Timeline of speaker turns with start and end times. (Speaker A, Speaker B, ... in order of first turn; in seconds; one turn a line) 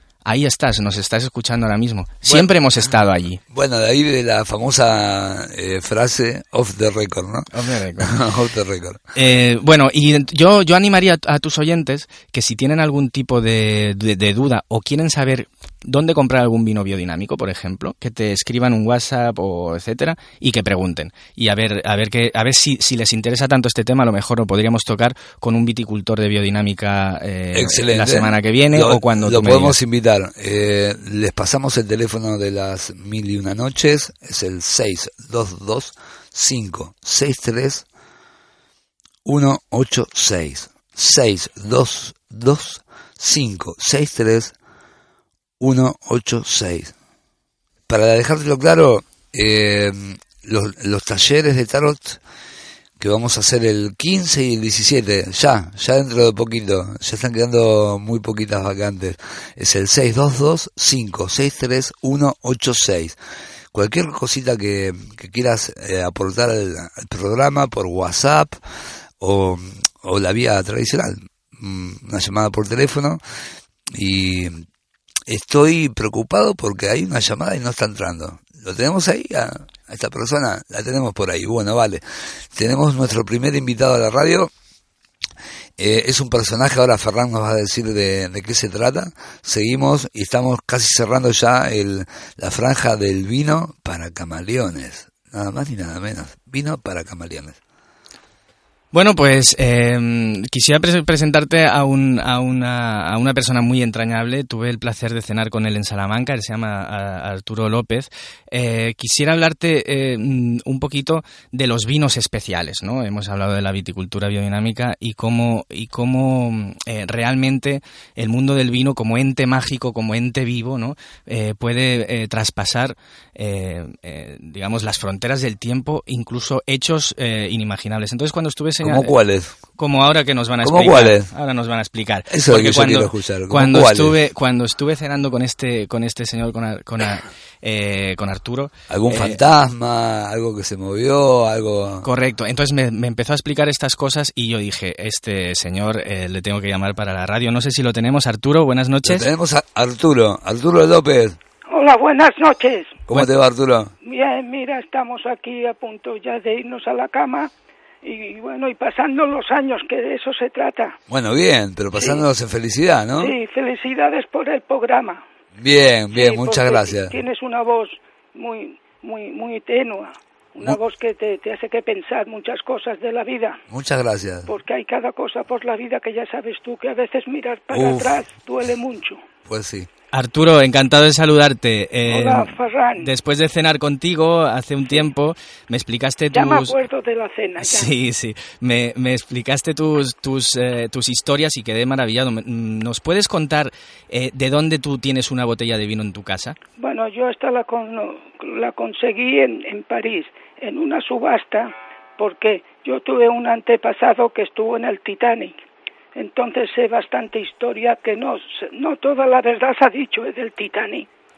Speaker A: 0.2-3.4
Speaker B: 2.2-2.9
Speaker B: 3.5-9.0
Speaker A: 7.5-8.1
Speaker A: 9.1-29.8
Speaker B: 27.5-37.9
Speaker B: 39.2-44.5
Speaker B: 45.6-46.9
Speaker B: 47.9-52.2
Speaker B: 53.0-63.2
Speaker B: 63.7-68.6
Speaker B: 69.2-73.2
Speaker B: 73.9-74.6
Speaker B: 75.3-84.5
Speaker B: 85.8-97.6
Speaker A: 98.9-129.1
Speaker B: 128.8-129.6
Speaker A: 129.7-139.4
Speaker B: 130.6-131.3
Speaker B: 132.3-134.2
Speaker B: 138.9-142.1
Speaker A: 142.0-149.3
Speaker B: 149.0-151.4
Speaker C: 151.7-153.0
Speaker B: 153.1-153.9
Speaker C: 154.0-157.5
Speaker C: 158.0-161.0
Speaker B: 161.1-163.3
Speaker C: 162.0-162.2
Speaker C: 163.2-165.2
Speaker B: 165.6-167.2
Speaker C: 166.1-173.6
Speaker B: 173.7-174.5
Speaker C: 174.5-179.2
Speaker B: 177.7-178.2
Speaker B: 179.4-179.9
Speaker A: 180.1-186.7
Speaker C: 182.1-183.1
Speaker C: 186.3-187.9
Speaker A: 187.6-196.6
Speaker C: 196.8-205.6
Speaker C: 206.1-211.1